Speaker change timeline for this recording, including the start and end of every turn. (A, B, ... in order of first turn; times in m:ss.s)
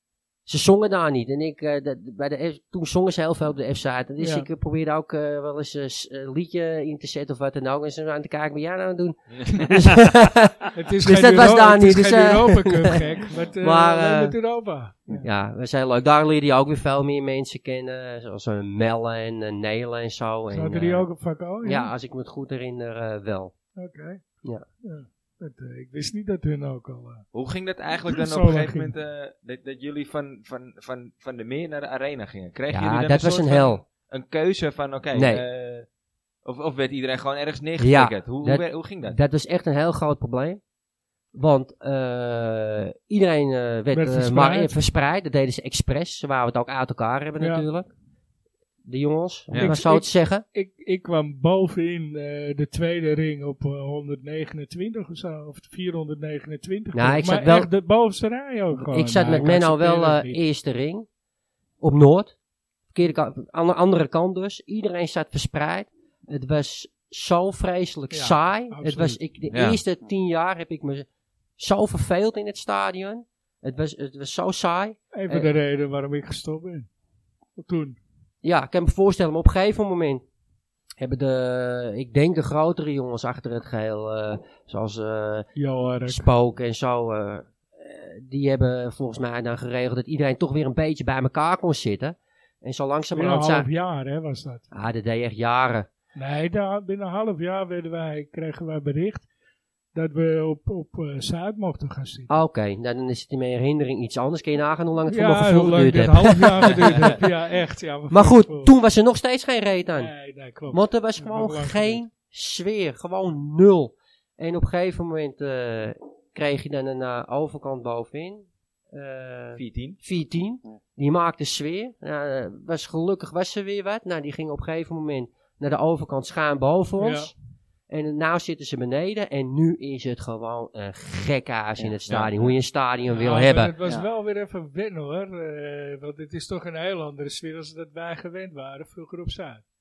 0:00.4-0:13.0 A
0:04.2-0:04.5 B
0:09.3-0:09.7 C
0:10.7-0:15.3 B
0:13.6-0:14.4 A
0:15.2-0:21.1 A
0:20.5-0:21.9 B
0:21.6-0:23.5 A
0:23.8-0:24.2 B
0:24.8-0:27.2 B
0:27.3-0:35.9 C
0:28.1-0:28.9 B
0:32.7-0:33.8 A
0:35.1-0:35.4 A
0:36.4-0:39.2 C
0:37.8-0:40.6 A
0:41.3-0:47.9 A
0:43.9-0:44.7 B
0:47.4-0:47.6 B
0:48.8-0:50.4 A
0:49.5-0:49.8 C
0:49.6-1:00.4 B
0:56.9-0:57.7 A
0:58.7-1:01.1 A
1:01.8-1:02.4 A
1:02.9-1:11.0 A
1:08.1-1:09.2 B
1:09.5-1:09.8 C
1:11.6-1:15.5 A
1:15.1-1:16.9 B
1:17.6-1:18.0 B
1:18.4-1:20.2 A
1:21.0-1:25.5 A
1:25.6-1:26.2 B
1:26.0-1:33.7 A
1:33.1-1:34.6 B
1:34.7-1:35.9 A
1:36.1-1:39.3 B
1:39.9-1:42.3 B
1:42.3-1:47.2 A
1:45.1-1:48.7 B
1:48.1-1:50.1 A
1:50.0-1:52.0 B
1:50.7-2:07.3 A
1:59.5-2:00.0 C
2:07.0-2:07.3 B
2:07.9-2:13.7 A
2:12.1-2:12.5 C
2:13.1-2:19.6 B